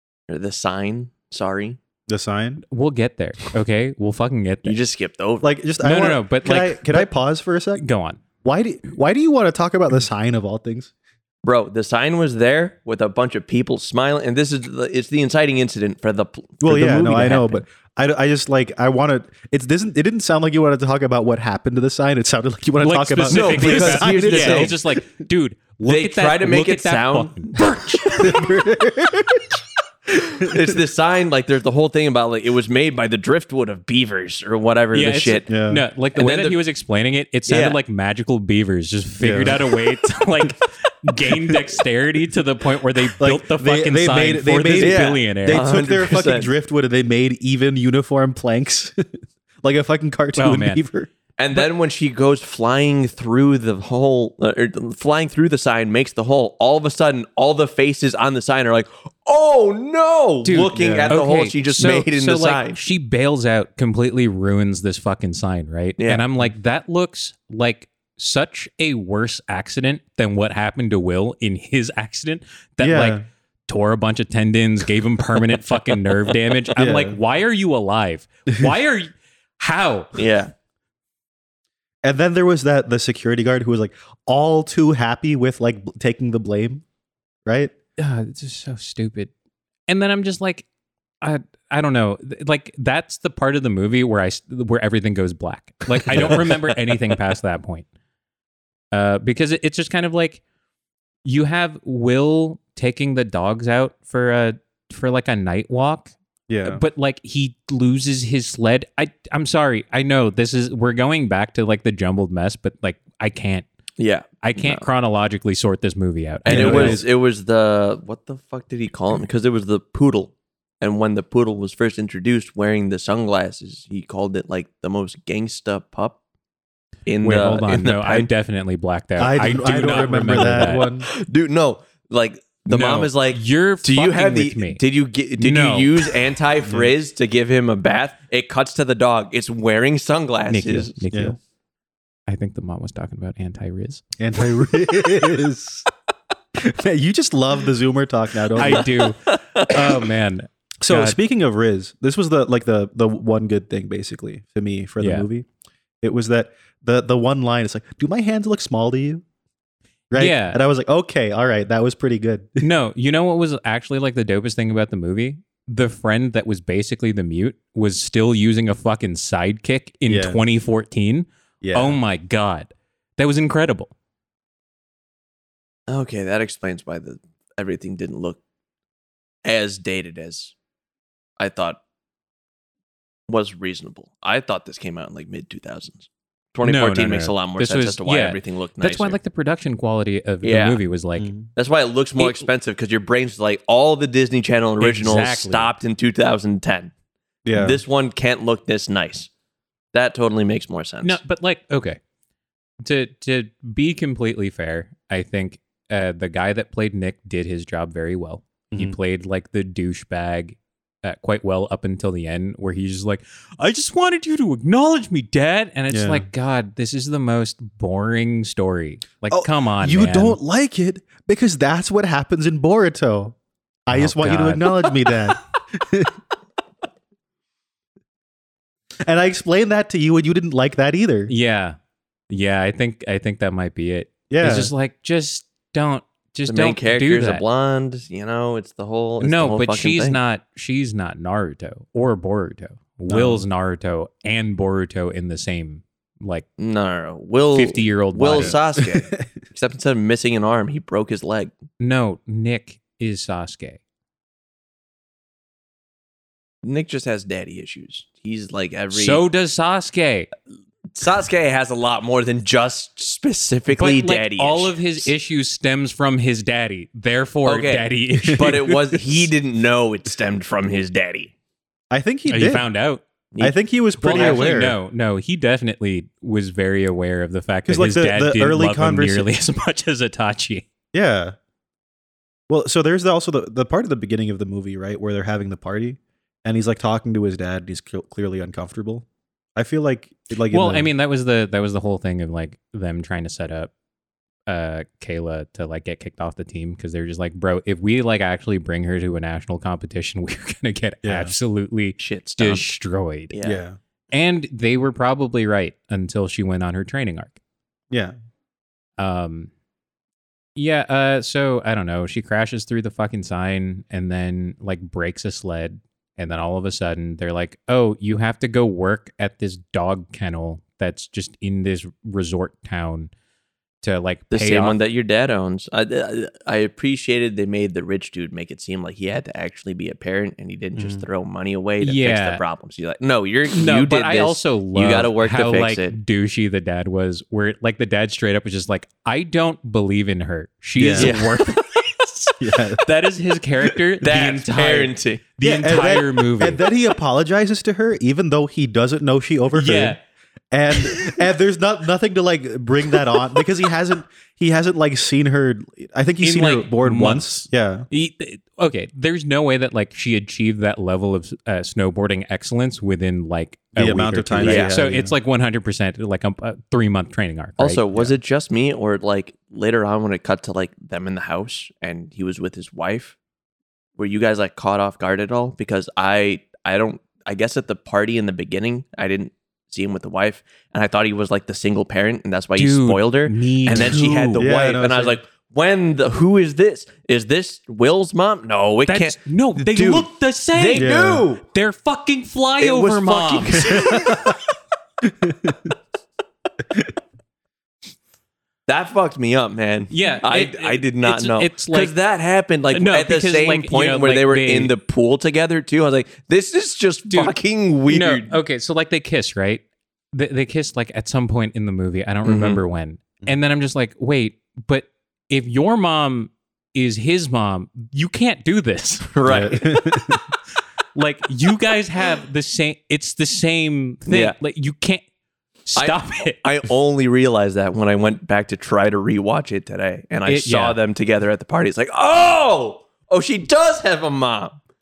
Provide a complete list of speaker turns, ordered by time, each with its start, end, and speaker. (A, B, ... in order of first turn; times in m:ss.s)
0:00.3-0:01.8 A
0:02.1-0:02.6 B
0:02.7-0:04.8 C
0:04.6-0:05.5 A
0:05.4-0:07.8 B
0:05.8-0:07.1 C
0:07.8-0:08.2 C
0:08.4-0:10.9 B
0:11.4-0:17.6 A
0:16.6-0:24.8 B
0:17.3-0:17.5 C
0:22.8-0:28.5 C
0:23.3-0:24.8 A
0:25.9-0:27.7 A
0:28.2-0:29.6 B
0:30.2-0:35.5 A
0:30.4-0:30.8 B
0:34.9-0:45.7 C
0:35.5-0:35.8 B
0:36.2-0:36.6 A
0:37.5-0:37.8 A
0:39.2-0:39.8 B
0:43.2-0:49.1 B
0:44.8-0:46.5 A
0:49.6-0:51.1 B
0:50.4-0:50.8 C
0:51.4-1:02.8 A
1:00.4-1:20.2 C
1:00.7-1:01.2 B
1:06.0-1:06.3 A
1:12.8-1:13.2 B
1:16.8-1:17.2 B
1:20.2-1:20.5 A
1:22.0-1:26.8 B
1:27.5-1:27.7 B
1:28.0-1:29.3 C
1:29.9-1:30.7 C
1:31.2-1:37.9 C
1:38.9-1:40.4 C
1:41.2-1:46.1 C
1:46.5-1:46.8 B
1:46.6-1:53.7 C
1:54.0-1:54.9 A
1:54.4-1:57.0 C
1:56.5-2:06.2 A
1:56.5-1:57.0 B
2:07.1-2:08.3 A
2:07.2-2:10.8 C
2:09.2-2:11.1 B
2:10.6-2:21.0 A
2:12.7-2:14.8 C
2:15.4-2:16.1 C
2:16.7-2:16.9 B
2:20.5-2:21.4 C
2:21.1-2:21.4 B
2:22.3-2:24.0 C
2:24.2-2:25.9 B
2:26.6-2:28.9 B
2:28.6-2:31.2 C
2:28.6-2:29.9 A
2:30.8-2:35.5 B
2:35.0-2:35.2 C
2:36.0-2:39.2 B
2:40.1-2:42.6 B
2:40.2-2:40.6 C
2:42.6-2:53.9 C
2:50.1-2:50.4 B
2:51.6-2:52.0 B
2:55.9-2:58.4 A
2:59.4-3:00.5 A
3:01.4-3:01.8 A
3:03.3-3:09.2 A
3:06.6-3:11.3 C
3:10.4-3:10.8 A
3:11.2-3:11.4 B
3:11.6-3:16.9 A
3:12.2-3:12.5 C
3:14.8-3:15.7 C
3:17.4-3:17.8 B
3:17.5-3:19.3 A
3:19.9-3:21.2 A
3:21.0-3:22.0 C
3:22.8-3:40.4 C
3:28.7-3:29.0 B
3:35.9-3:36.3 B
3:39.3-3:43.4 B
3:43.9-3:46.2 B
3:43.9-3:44.9 C
3:49.0-3:51.3 B
3:51.3-3:51.8 C
3:52.3-3:57.4 C
3:54.3-3:54.7 B
3:56.5-4:00.2 A
3:59.2-4:06.5 C
4:03.1-4:03.4 B
4:06.6-4:11.5 A
4:07.5-4:08.6 C
4:08.4-4:09.3 B
4:11.8-4:13.8 C
4:16.6-4:19.2 A
4:18.9-4:20.3 C
4:21.0-4:25.1 A
4:23.7-4:29.1 C
4:27.4-4:31.3 A
4:28.2-4:28.6 B
4:31.9-4:32.7 B
4:32.3-4:33.0 C
4:33.4-4:34.8 B
4:34.0-4:40.7 C
4:34.1-4:34.6 A
4:37.7-4:39.3 B
4:40.9-4:41.4 B
4:42.5-4:49.0 B
4:49.6-4:50.9 B
4:50.5-4:53.7 C
4:54.5-5:03.3 C
5:01.0-5:01.3 B
5:02.0-5:02.7 A
5:03.3-5:03.6 A
5:03.4-5:03.8 B
5:04.1-5:07.4 C
5:09.0-5:09.5 C
5:10.6-5:23.1 C
5:23.8-5:24.8 C
5:24.3-5:36.0 A
5:30.8-5:31.1 B
5:31.8-5:32.4 C
5:33.5-5:46.6 C
5:40.8-5:41.2 B
5:41.0-5:42.1 A
5:42.4-5:42.8 B
5:44.0-5:45.2 A
5:45.4-5:50.0 B
5:49.6-5:50.0 C
5:50.5-5:57.9 B
5:50.8-5:51.2 C
5:56.2-6:07.8 C
6:03.8-6:05.1 B
6:04.4-6:04.8 A
6:07.6-6:13.2 A
6:14.0-6:31.4 A
6:22.6-6:24.4 C
6:24.4-6:25.2 B
6:28.9-6:30.9 C
6:30.8-6:31.3 B
6:31.5-6:34.4 C
6:32.6-6:34.4 A
6:33.7-6:34.4 B
6:35.0-6:35.7 B
6:38.7-6:48.4 A
6:39.9-6:41.9 C
6:42.7-6:44.7 C
6:47.9-6:59.5 C
6:52.2-6:52.6 A
6:59.2-6:59.6 A
6:59.3-7:00.2 B
7:01.0-7:05.0 C
7:04.1-7:04.4 A
7:05.7-7:06.4 C
7:05.8-7:14.6 A
7:10.3-7:10.8 C